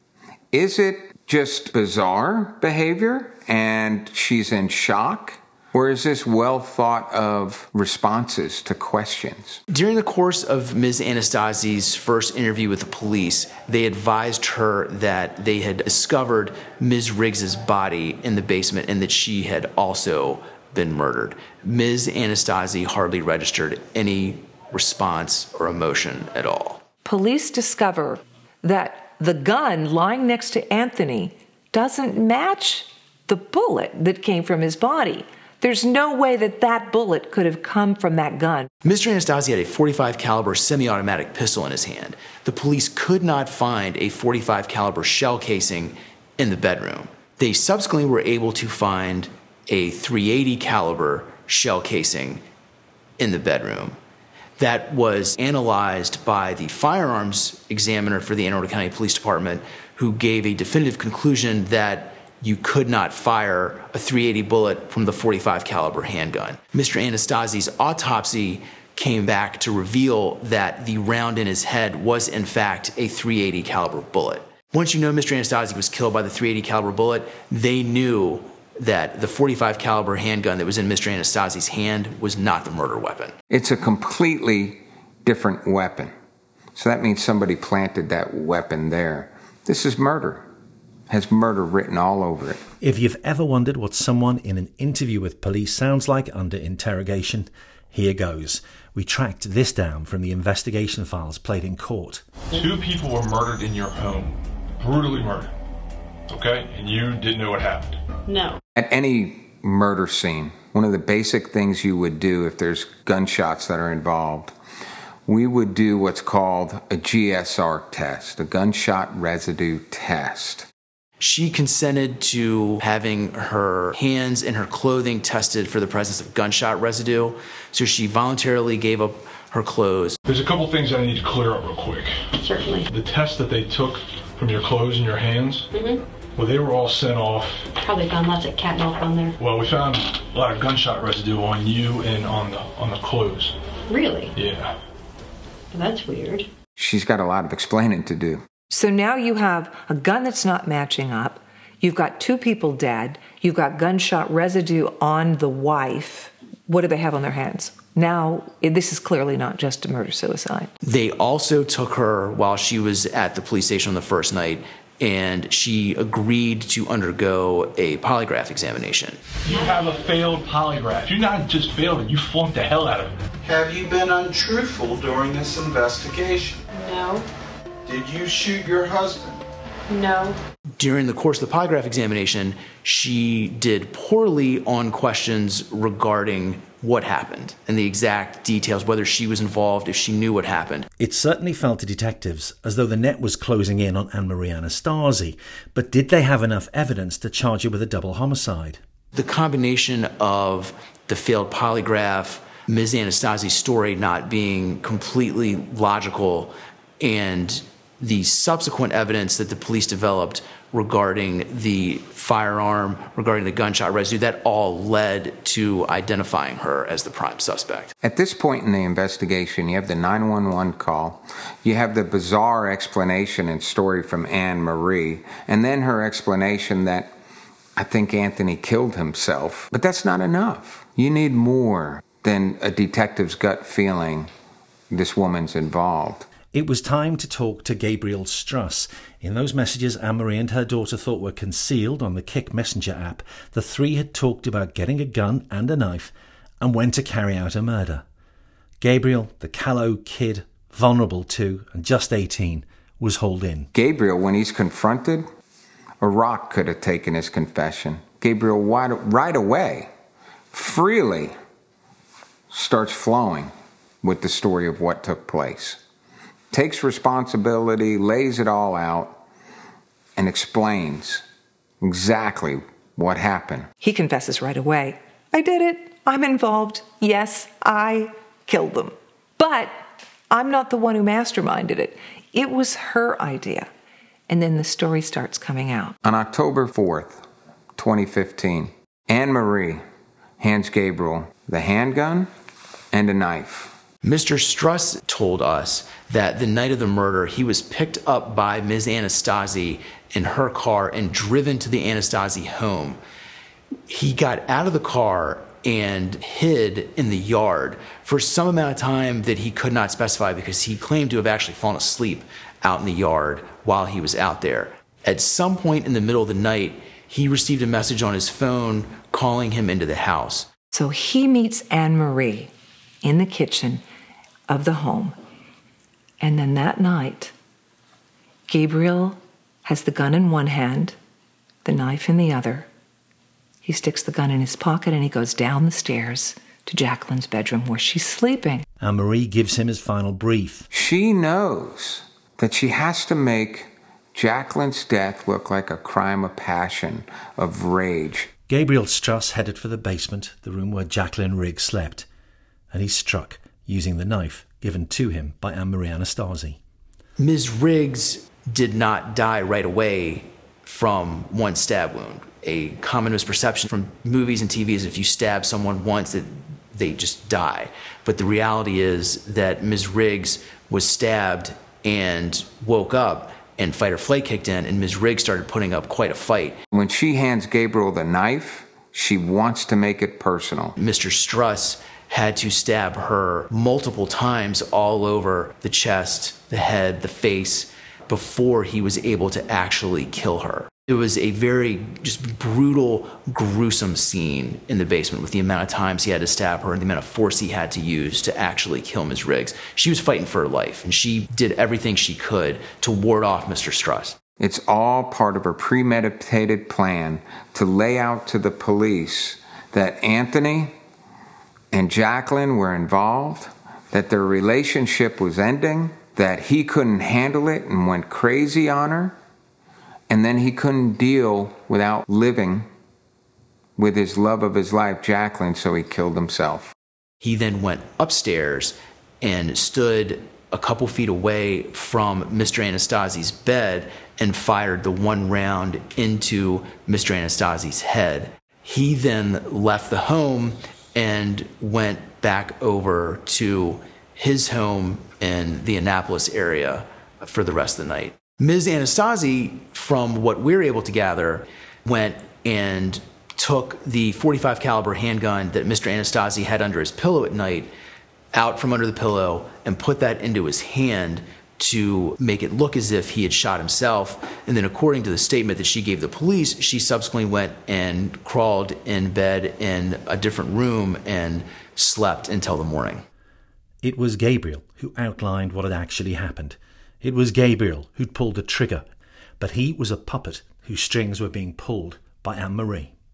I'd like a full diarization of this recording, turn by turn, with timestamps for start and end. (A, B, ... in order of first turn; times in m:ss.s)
0:00.5-0:09.6 A
0:09.7-0:26.8 B
0:27.0-0:38.7 C
0:38.8-0:52.4 B
0:53.2-0:54.0 B
0:54.6-1:23.3 B
1:23.5-1:26.1 A
1:26.8-1:30.4 A
1:31.1-1:32.6 A
1:32.8-1:42.2 D
1:42.5-1:45.5 E
1:46.3-1:48.0 E
1:48.2-1:48.6 F
1:48.8-1:54.5 A
1:55.2-2:00.7 A
2:01.2-2:10.2 B
2:10.2-2:12.1 E
2:12.4-2:12.9 F
2:12.8-2:15.7 E
2:15.7-2:16.0 F
2:16.4-2:17.7 E
2:17.8-2:19.3 F
2:19.4-2:23.5 E
2:23.9-2:24.3 F
2:24.4-2:24.8 E
2:25.7-2:26.5 F
2:26.8-2:28.4 A
2:28.7-2:40.7 C
2:40.8-2:49.2 B
2:49.4-2:53.2 E
2:49.5-2:49.8 F
2:53.4-2:56.6 G
2:56.7-2:57.2 F
2:57.8-2:59.4 G
2:59.9-3:00.4 F
3:00.8-3:10.9 B
3:11.0-3:18.8 D
3:19.1-3:37.9 B
3:38.0-3:47.1 A
3:47.8-3:54.3 A
3:54.9-3:56.3 A
3:56.5-4:08.0 D
4:08.8-4:13.7 D
4:13.7-4:15.2 A
4:16.0-4:19.9 A
4:20.5-4:21.3 A
4:22.5-4:25.8 A
4:26.5-4:29.2 A
4:30.2-4:31.2 A
4:31.8-4:33.7 A
4:33.8-4:39.7 C
4:40.3-4:43.7 C
4:44.3-4:46.0 C
4:46.0-4:47.2 A
4:47.8-4:49.8 A
4:50.4-4:52.3 A
4:52.9-4:53.7 A
4:54.0-5:03.0 B
5:03.9-5:20.5 B
5:20.7-5:22.5 C
5:23.0-5:23.8 C
5:24.5-5:25.2 C
5:26.2-5:27.3 C
5:28.5-5:31.0 C
5:31.6-5:32.7 C
5:33.6-5:38.6 C
5:38.8-5:40.7 D
5:40.7-5:48.3 A
5:48.5-5:52.0 D
5:52.7-5:56.6 D
5:57.2-6:16.6 B
6:16.7-6:20.8 A
6:20.8-6:44.2 B
6:44.4-6:50.7 A
6:51.7-6:59.2 A
7:00.1-7:02.7 A
7:03.8-7:06.7 A
7:07.2-7:37.7 B
7:38.3-7:53.0 B
7:53.8-7:58.9 D
7:59.4-8:02.9 D